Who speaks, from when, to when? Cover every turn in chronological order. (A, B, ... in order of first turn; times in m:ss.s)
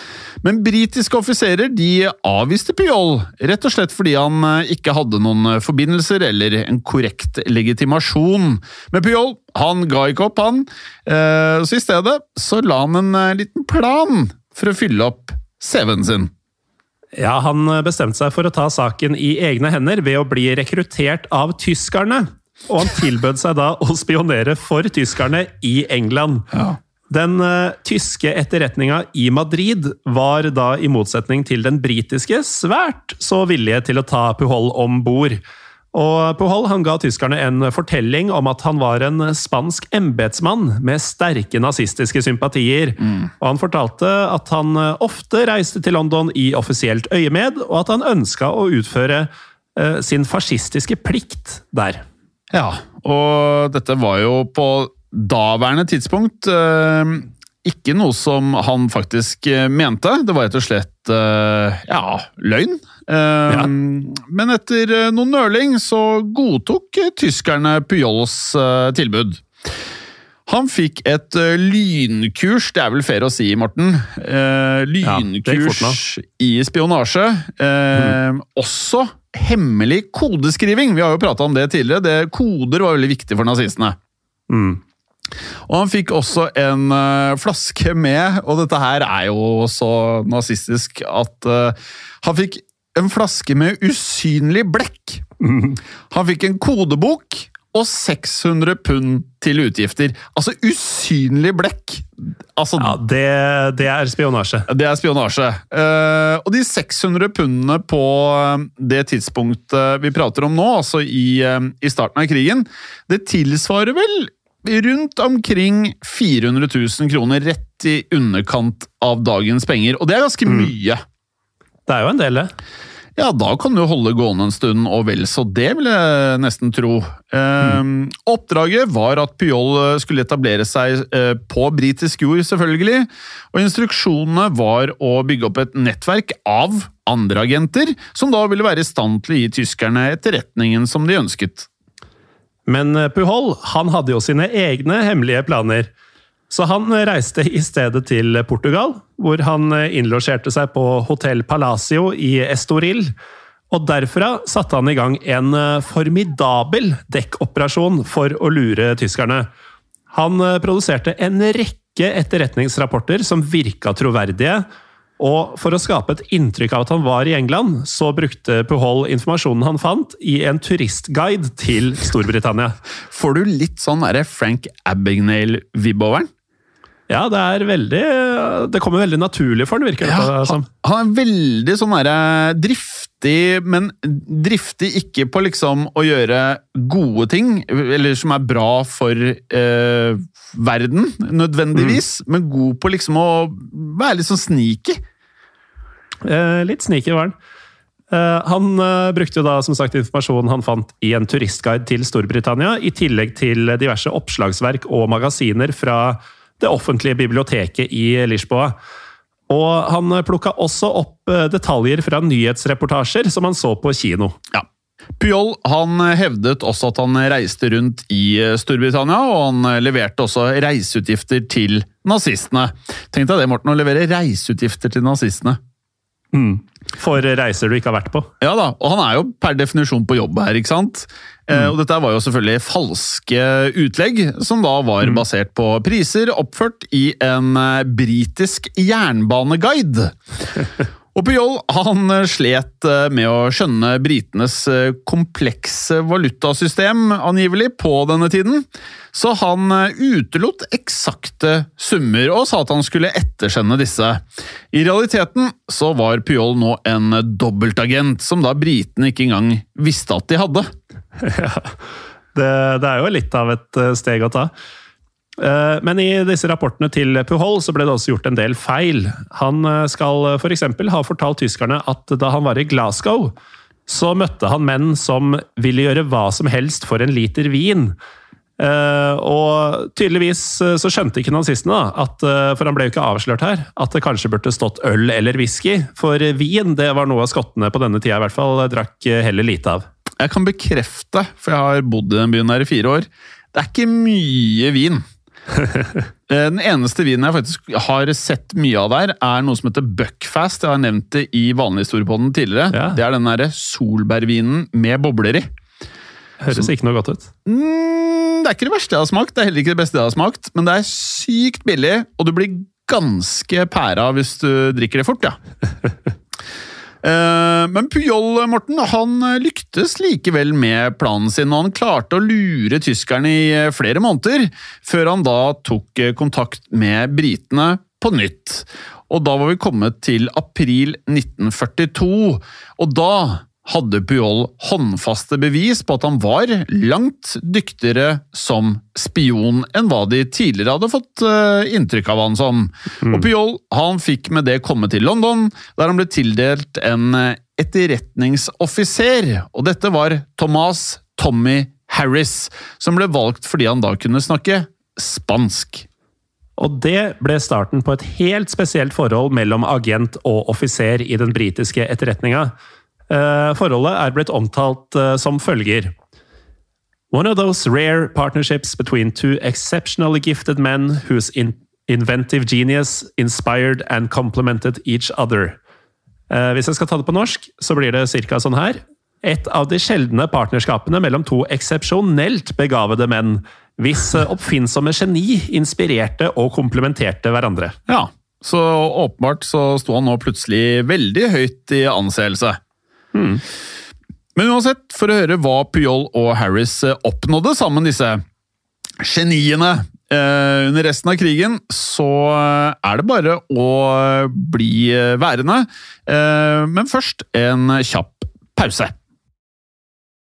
0:00.4-0:16.3 A
0:17.2-0:26.5 B
0:27.1-0:35.4 B
0:35.9-0:52.0 B
0:43.0-0:43.3 A
0:52.5-1:09.5 A
1:10.5-1:24.0 A
1:15.0-1:16.0 B
1:24.5-1:24.8 B
1:25.7-1:35.2 A
1:35.4-1:35.8 B
1:36.1-1:43.0 A
1:42.8-1:44.7 B
1:44.7-2:01.0 A
2:00.5-2:00.7 B
2:01.9-2:02.5 B
2:03.2-2:21.7 A
2:22.7-2:25.9 B
2:26.5-2:33.1 B
2:33.7-2:39.5 B
2:40.1-2:44.6 B
2:45.2-2:52.8 B
2:53.1-2:56.3 A
2:57.1-3:00.7 B
3:00.0-3:15.0 A
3:16.2-3:17.4 B
3:18.1-3:28.8 B
3:29.5-3:34.4 B
3:35.2-3:45.6 A
3:46.3-3:48.3 B
3:48.4-4:00.2 A
4:01.1-4:20.7 A
4:21.2-4:21.8 B
4:22.4-4:24.5 B
4:25.4-4:33.3 B
4:33.9-4:38.0 B
4:38.6-4:49.9 B
4:50.2-4:55.0 A
4:56.3-5:05.5 A
5:02.7-5:03.0 B
5:06.4-5:07.3 B
5:07.5-5:15.4 A
5:17.0-5:55.9 A
5:56.6-6:02.5 B
6:03.1-6:05.9 B
6:07.1-6:15.6 B
6:16.3-6:27.8 B
6:27.9-6:32.6 A
6:33.1-6:33.4 B
6:34.4-6:38.2 A
6:39.0-6:49.0 A